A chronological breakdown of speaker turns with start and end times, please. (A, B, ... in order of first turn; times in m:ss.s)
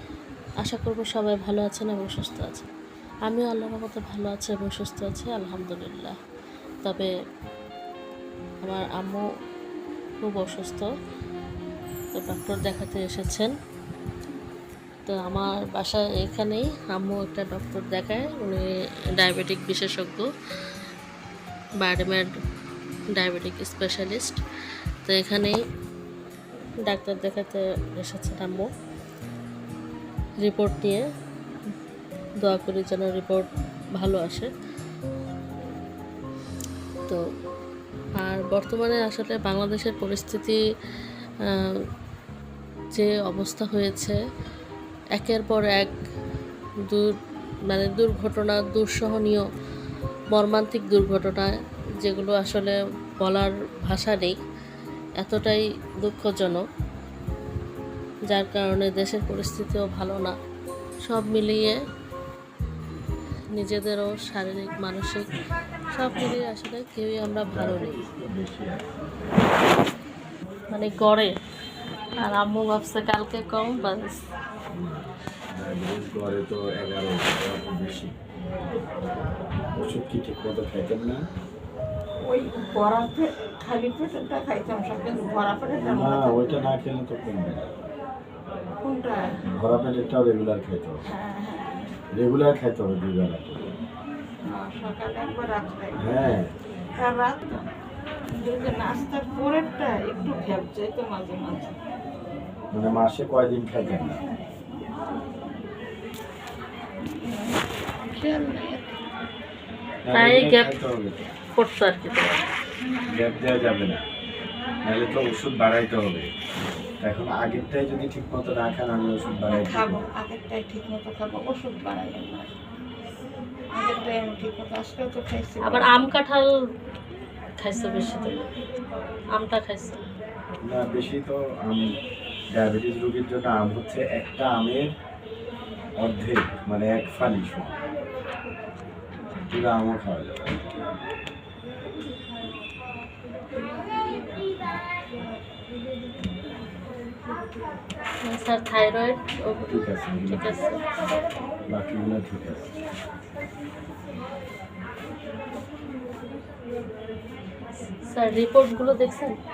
0:00.6-0:02.7 A
0:03.3-0:06.2 A
0:06.8-0:07.1 A
0:08.6-0:09.3 A
0:10.2-0:10.9 A
0:12.1-0:13.5 A
0:15.1-0:20.3 A
0:21.8-0:22.3 A
0:23.1-0:24.4 A
0:25.0-0:25.6 A
0:26.8-0:28.7 A
0:30.4-0:31.1 A
0:32.4-0:34.5 A
0:38.2-0:40.6 A
0:41.4-0:41.8 A
0:43.0-0:44.2 A
0:45.2-0:45.9 A
0:46.8-0:47.1 A
0:47.7-0:49.5 A
0:50.3-0:54.4 A
0:55.2-0:56.6 A
0:58.3-1:00.4 A
1:01.1-1:01.8 A
1:03.6-1:05.3 A
1:05.9-1:08.0 A
1:07.5-1:09.4 B
1:10.7-1:11.4 A
1:12.2-1:14.2 A
1:14.7-1:18.1 B
1:19.8-1:21.2 B
1:22.2-1:26.7 C
1:25.9-1:27.7 B
1:28.8-1:29.4 C
1:29.5-1:31.0 B
1:31.1-1:32.0 C
1:32.1-1:33.7 B
1:34.5-1:36.0 C
1:36.0-1:36.6 B
1:37.0-1:37.7 C
1:38.4-1:41.7 C
1:42.7-1:44.2 B
1:48.1-1:49.0 C
1:50.0-1:51.3 B
1:50.1-1:50.8 A
1:51.6-1:52.4 A
1:53.1-1:54.0 B
1:54.8-1:56.3 B
1:57.0-2:00.0 B
1:59.5-2:02.5 C
2:03.7-2:06.0 C
2:05.6-2:06.5 A
2:07.6-2:08.3 A
2:09.4-2:10.0 A
2:10.7-2:11.8 B
2:12.6-2:14.9 B
2:16.0-2:17.8 B
2:19.5-2:20.6 B
2:28.2-2:30.8 A
2:29.7-2:30.6 B
2:31.7-2:32.7 B
2:38.1-2:39.3 A